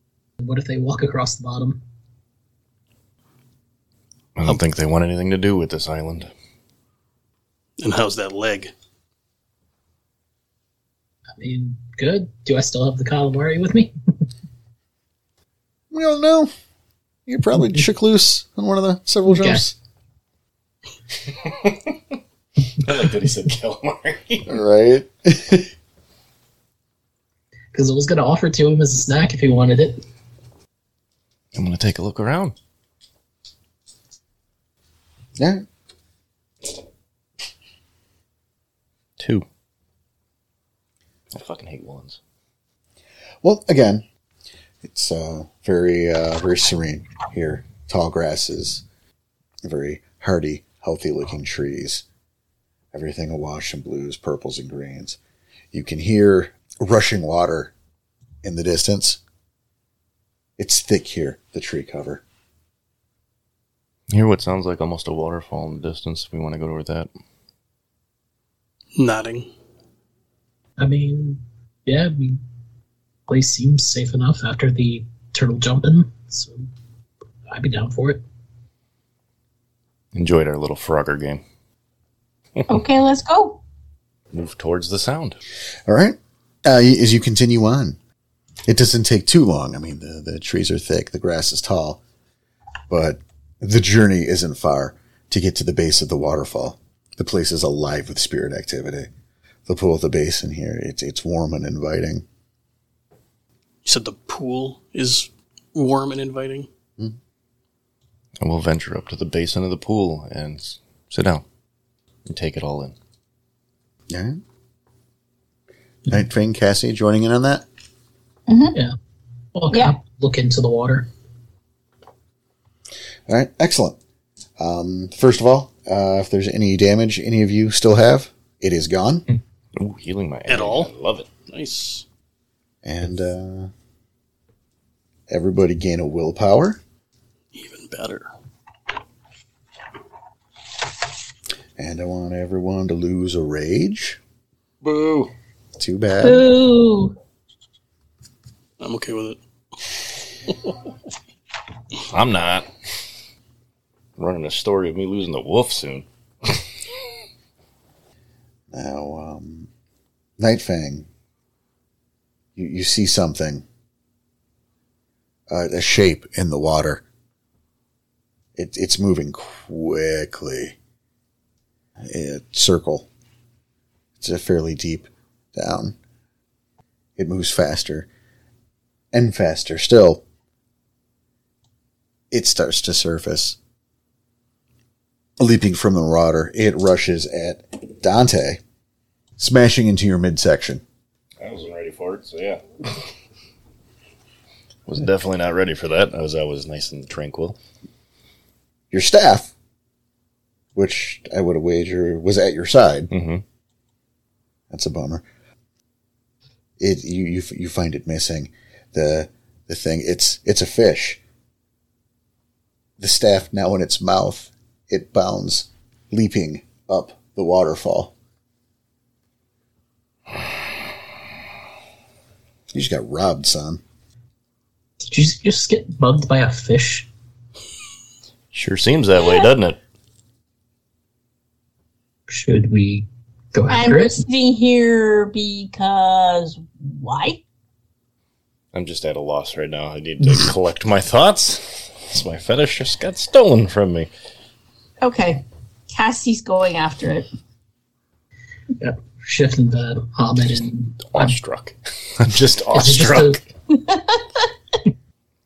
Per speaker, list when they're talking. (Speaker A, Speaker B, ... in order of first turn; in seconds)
Speaker A: 0.4-1.8, 11.4-13.9, 19.3-19.6, 27.7-30.0, 70.8-72.4, 73.3-76.6, 77.5-78.2, 119.5-121.1, 225.1-227.1, 232.3-234.2, 248.8-251.3, 252.7-253.4
Speaker B: 4.3-6.3, 21.4-21.9, 22.8-24.5, 31.5-32.5, 39.2-39.5, 41.3-42.2, 64.1-67.1, 80.1-81.4, 84.3-85.4, 108.4-111.4, 112.2-112.9, 129.8-131.3, 144.8-145.3, 152.1-152.7, 154.2-156.6, 191.4-192.6, 194.9-197.6, 203.1-203.4, 228.5-229.8, 238.7-244.1, 251.1-253.4
Speaker C: 7.8-8.7, 69.0-69.5, 103.8-106.7, 130.5-132.0, 137.5-138.3, 148.8-149.4
Speaker D: 15.9-16.5, 17.2-19.7, 24.5-25.7, 35.4-35.6, 43.4-44.0, 44.8-48.8, 49.6-52.0, 52.9-55.2, 55.7-57.7, 58.4-59.2, 60.6-62.2, 85.9-88.0, 88.7-92.0, 92.9-99.1, 99.7-102.2, 114.1-114.4, 116.1-117.6, 123.3-124.0, 124.6-129.2, 132.8-133.7, 135.3-136.8, 141.8-144.2, 145.8-146.5, 158.7-159.7, 160.4-161.1, 162.6-163.6, 165.5-167.0, 168.6-170.8, 172.0-173.1, 174.2-175.9, 177.2-178.1, 179.1-180.2, 182.3-183.6, 185.4-188.6, 189.4-190.8, 198.9-199.5, 200.7-203.1, 204.7-205.2, 206.8-211.2, 213.0-218.1, 222.7-223.8
Speaker E: 82.7-83.6, 118.5-118.8, 146.2-147.1, 233.7-237.4, 245.0-247.3